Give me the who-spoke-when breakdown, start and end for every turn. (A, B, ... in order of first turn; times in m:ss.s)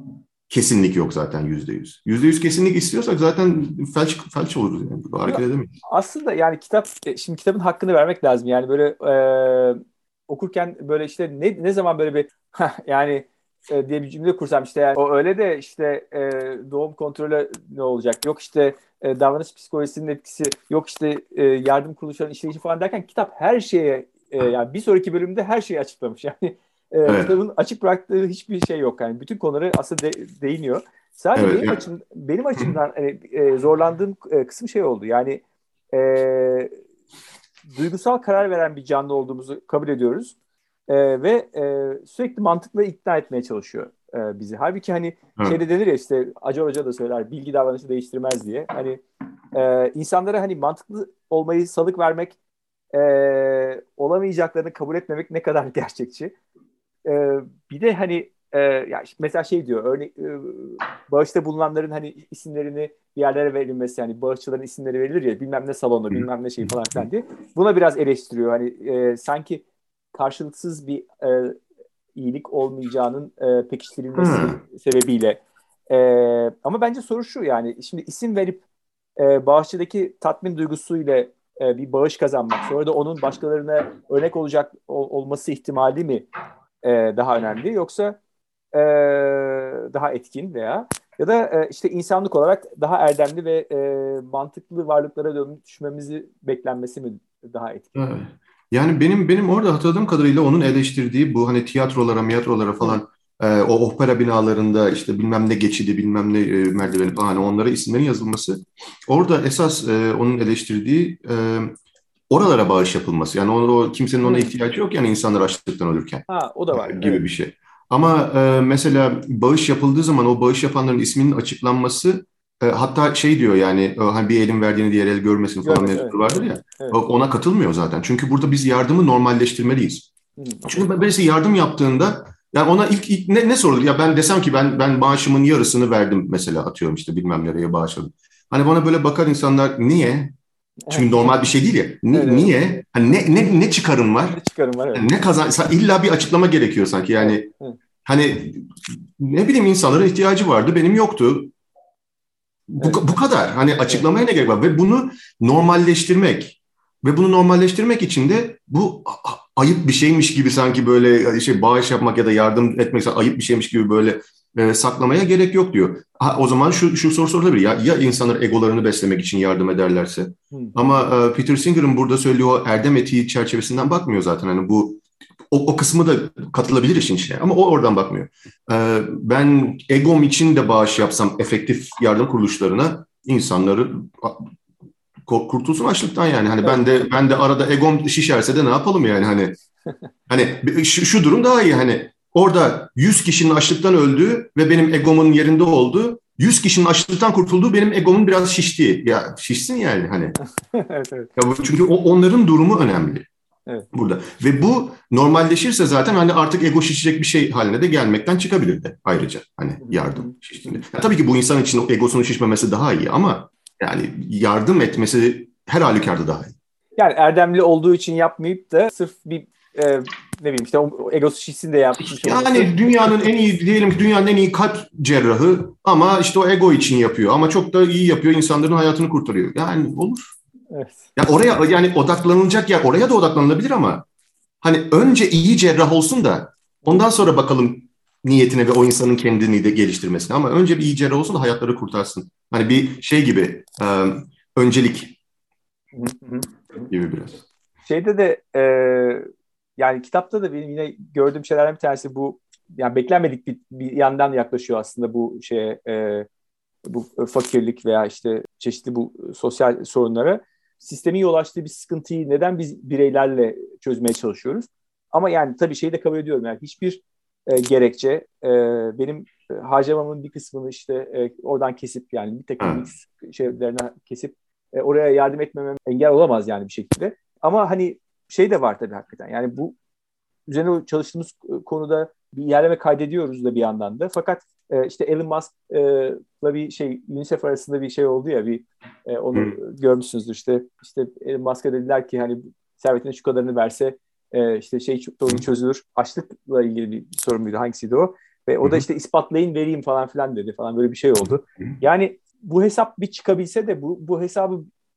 0:00.5-0:05.8 A
0:05.3-0:36.8 B
0:27.1-0:27.3 A
0:31.4-0:31.8 A
0:37.7-0:40.4 B
0:40.9-0:49.0 B
0:49.5-0:52.4 B
0:52.9-0:56.3 B
0:57.0-1:11.6 B
1:12.2-1:18.6 B
1:14.2-1:14.6 A
1:19.2-1:26.3 B
1:26.8-1:28.2 B
1:28.7-1:38.0 B
1:38.0-1:51.7 A
1:52.3-2:10.1 A
1:54.2-1:54.5 B
1:56.3-1:57.2 B
2:05.6-2:07.0 B
2:10.4-2:10.8 B
2:10.6-2:20.4 A
2:20.9-2:21.3 B
2:20.9-2:24.4 A
2:22.1-2:22.6 B
2:24.3-2:25.1 B
2:24.9-2:27.5 A
2:27.2-2:27.8 B
2:28.0-2:31.5 A
2:32.7-3:04.5 A
3:05.3-3:09.6 A
3:10.3-3:20.4 A
3:20.7-3:21.3 B
3:21.4-3:23.3 A
3:23.9-3:36.5 A
3:29.8-3:30.3 B
3:37.0-3:42.9 B
3:42.0-3:50.3 A
3:50.7-3:51.1 B
3:51.2-3:54.0 A
3:54.6-4:05.2 A
4:06.0-4:06.9 B
4:06.9-4:07.4 A
4:07.9-4:16.3 B
4:16.8-4:39.8 B
4:40.5-5:04.7 B